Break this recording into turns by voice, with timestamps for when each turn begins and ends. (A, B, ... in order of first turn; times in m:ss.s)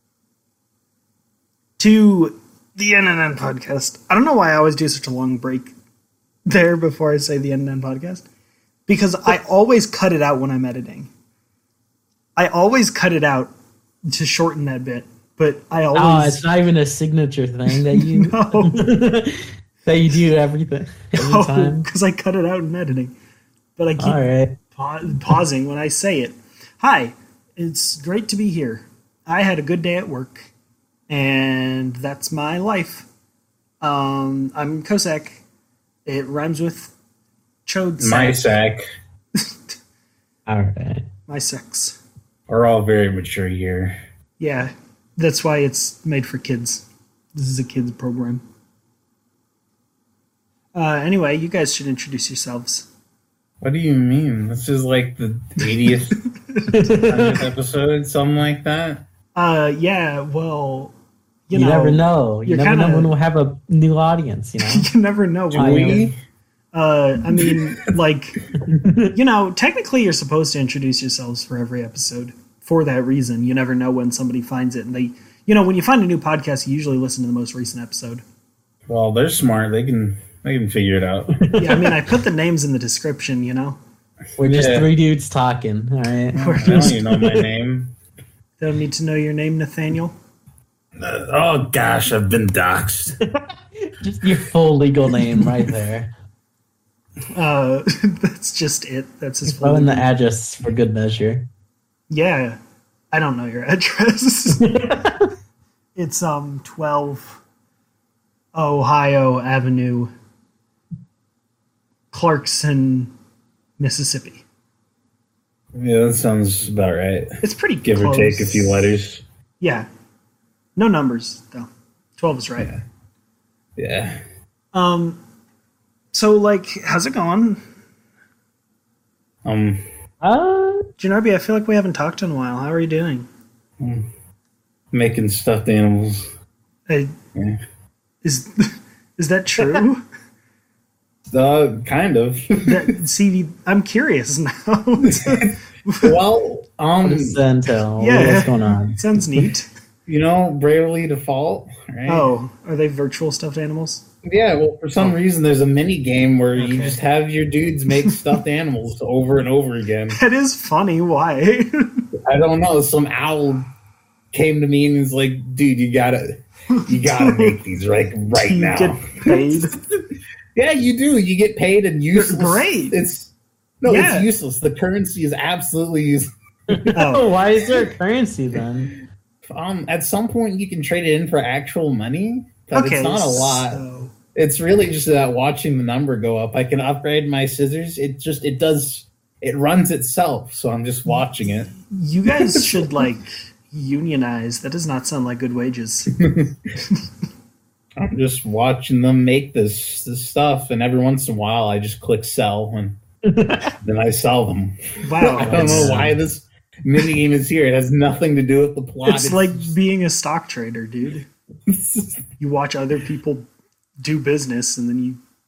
0:01.8-0:05.7 A
0:06.5-0:08.3 A
0:08.9-0:11.1 A
0:12.4-0:13.5 A
0:14.1-0:16.5 A
0:15.9-0:21.8 B
0:17.7-0:18.8 A
0:21.2-0:23.1 A
0:23.8-0:24.2 A
0:24.0-0:24.5 B
0:24.7-0:30.5 A
0:31.1-0:33.1 A
0:33.8-0:35.4 A
0:36.0-0:36.9 A
0:37.6-0:38.6 A
0:38.0-0:38.8 C
0:40.5-0:41.0 B
0:41.3-0:42.0 A
0:42.5-0:44.0 C
0:44.4-0:48.4 A
0:50.7-0:52.9 A
0:53.6-0:56.1 C
0:56.5-0:56.8 A
0:56.7-0:57.4 B
0:57.0-0:59.0 C
0:59.4-1:00.9 A
1:01.5-1:03.1 A
1:01.5-1:04.9 B
1:04.6-1:06.0 A
1:05.5-1:06.2 C
1:05.5-1:06.0 B
1:06.7-1:08.4 A
1:07.3-1:07.6 C
1:08.7-1:09.1 B
1:09.1-1:18.2 A
1:18.9-1:21.3 C
1:21.4-1:22.0 B
1:21.6-1:23.8 A
1:24.4-1:27.4 B
1:24.4-1:24.9 C
1:26.3-1:27.9 C
1:26.4-1:27.0 A
1:28.6-1:30.1 A
1:31.0-1:33.2 C
1:33.8-1:36.1 B
1:37.3-1:40.1 A
1:39.5-1:41.4 B
1:42.1-1:42.6 A
1:43.1-1:44.6 A
1:44.6-1:45.3 B
1:46.0-1:47.4 A
1:48.5-1:50.1 A
1:52.1-1:53.1 A
1:53.8-1:54.4 A
1:55.7-1:59.2 C
1:57.4-1:58.9 A
1:59.6-1:59.9 A
2:00.8-2:02.7 A
2:03.8-2:04.2 C
2:04.7-2:05.2 A
2:06.1-2:07.6 A
2:09.4-2:09.8 C
2:10.2-2:10.8 B
2:11.0-2:13.3 A
2:13.8-2:14.1 C
2:14.9-2:16.3 C
2:16.9-2:17.1 A
2:17.3-2:17.6 C
2:18.2-2:20.0 A
2:21.3-2:22.9 C
2:22.6-2:26.2 A
2:25.0-2:27.4 C
2:27.0-2:29.0 B
2:28.0-2:29.7 A
2:30.1-2:32.3 C
2:32.1-2:34.0 A
2:34.2-2:40.2 C
2:36.6-2:37.0 A
2:40.1-2:41.9 A
2:42.2-2:43.6 C
2:44.3-2:50.0 C
2:46.7-2:47.6 A
2:48.3-2:49.7 A
2:50.5-2:57.0 C
2:52.1-2:53.0 A
2:53.8-2:54.3 A
2:56.7-2:58.9 B
2:56.9-2:57.3 A
2:59.4-3:03.8 C
3:02.7-3:04.1 A
3:04.3-3:11.7 C
3:11.8-3:16.1 A
3:12.3-3:13.0 C
3:16.2-3:16.7 C
3:18.0-3:23.0 C
3:23.2-3:23.7 B
3:23.8-3:29.7 C
3:25.0-3:26.0 A
3:25.4-3:26.2 B
3:29.0-3:31.2 A
3:31.7-3:32.2 C
3:32.4-3:33.4 A
3:34.0-3:35.2 A